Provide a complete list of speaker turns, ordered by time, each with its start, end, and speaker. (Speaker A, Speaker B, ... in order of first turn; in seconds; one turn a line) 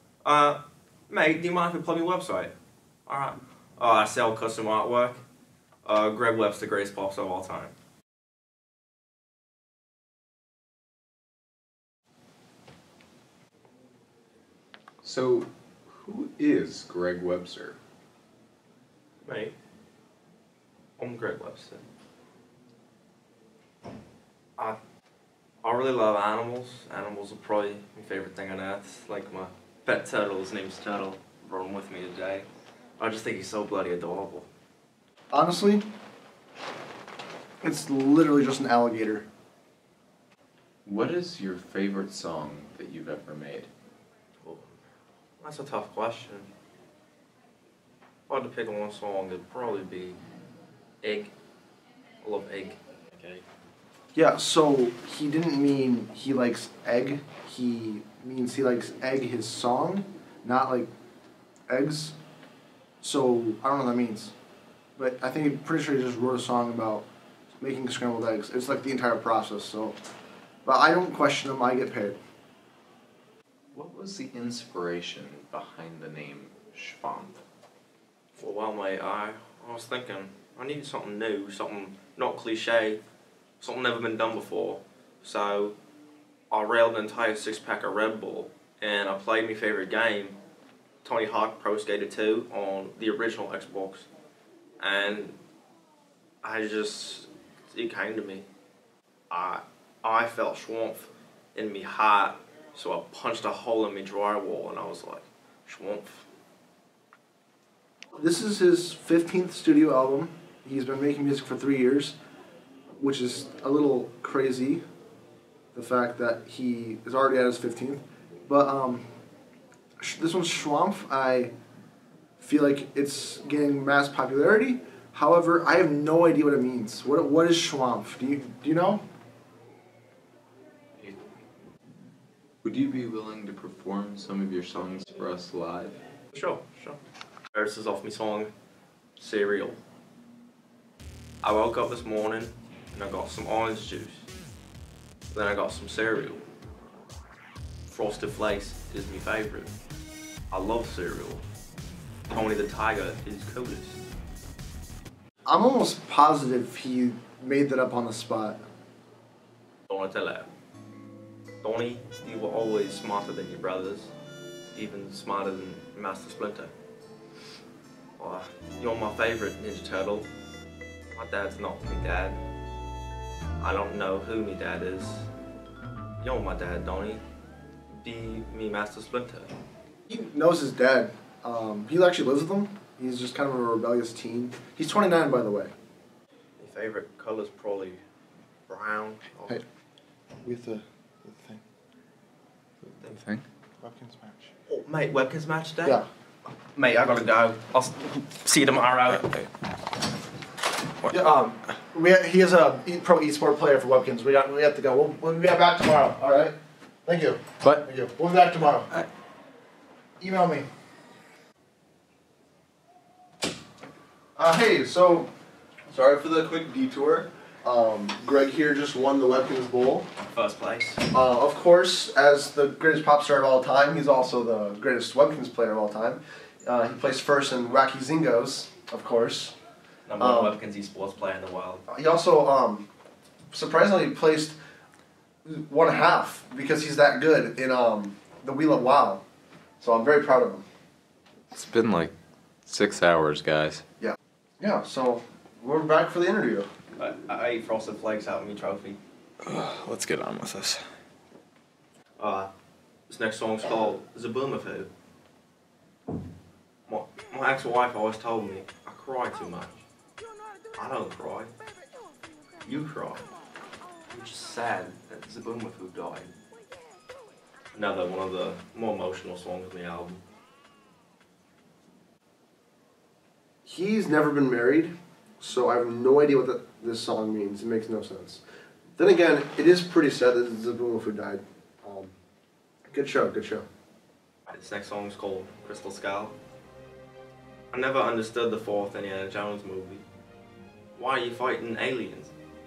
Speaker A: 0.2-2.5
Speaker A: 3.1-5.2
Speaker A: 5.8-7.7
Speaker B: 15.0-17.8
Speaker A: 19.2-19.5
Speaker A: 21.0-21.8
Speaker A: 25.6-32.5
Speaker A: 33.0-34.5
Speaker C: 35.3-35.8
Speaker C: 37.6-39.2
Speaker B: 40.8-43.7
Speaker A: 44.4-44.8
Speaker A: 45.4-46.5
Speaker A: 48.3-50.2
Speaker A: 51.0-51.3
Speaker A: 52.2-53.4
Speaker C: 54.1-60.9
Speaker C: 61.7-62.1
Speaker C: 63.0-64.3
Speaker C: 65.0-67.0
Speaker C: 67.6-70.0
Speaker C: 70.6-72.2
Speaker B: 73.7-77.4
Speaker A: 78.3-83.0
Speaker A: 83.6-85.7
Speaker A: 86.5-90.4
Speaker A: 91.0-94.1
Speaker A: 94.8-95.4
Speaker A: 96.4-98.5
Speaker A: 99.3-106.3
Speaker C: 108.2-112.2
Speaker C: 113.0-114.8
Speaker C: 115.7-119.0
Speaker C: 120.0-121.5
Speaker C: 122.4-129.0
Speaker B: 132.6-136.0
Speaker A: 136.3-137.0
Speaker A: 137.5-138.5
Speaker A: 139.2-139.8
Speaker A: 141.4-144.2
Speaker A: 145.3-146.4
Speaker A: 147.9-149.7
Speaker A: 150.5-151.4
Speaker A: 152.3-154.0
Speaker C: 155.5-158.6
Speaker A: 159.9-160.5
Speaker A: 161.6-164.1
Speaker A: 164.7-166.7
Speaker A: 168.2-170.3
Speaker A: 171.1-172.4
Speaker A: 173.6-175.3
Speaker A: 176.2-177.2
Speaker A: 177.9-179.5
Speaker C: 180.1-185.7
Speaker A: 186.6-188.0
Speaker A: 188.7-189.6
Speaker C: 190.4-191.6
Speaker B: 193.2-193.4
Speaker C: 193.8-194.5
Speaker A: 194.7-196.0
Speaker A: 196.7-199.4
Speaker C: 201.1-208.9
Speaker C: 210.2-210.7
Speaker C: 214.3-215.3
Speaker C: 215.9-220.1
Speaker A: 220.3-221.0
Speaker C: 221.1-229.5
Speaker A: 230.1-231.8
Speaker C: 230.2-230.5
Speaker C: 231.9-232.9
Speaker C: 233.5-234.6
Speaker C: 235.4-239.2
Speaker C: 239.8-240.7
Speaker B: 241.5-242.1
Speaker B: 242.7-243.8
Speaker C: 244.0-246.7
Speaker A: 247.0-249.0
Speaker B: 249.4-250.8
Speaker A: 252.2-252.5
Speaker A: 253.1-254.9
Speaker A: 256.9-259.8
Speaker A: 260.7-261.5
Speaker A: 262.6-263.3
Speaker A: 264.1-266.3
Speaker A: 267.7-270.2
Speaker C: 273.6-278.4
Speaker C: 278.9-282.1
Speaker C: 282.9-283.6
Speaker A: 284.5-286.3
Speaker A: 287.7-290.0
Speaker A: 290.9-292.3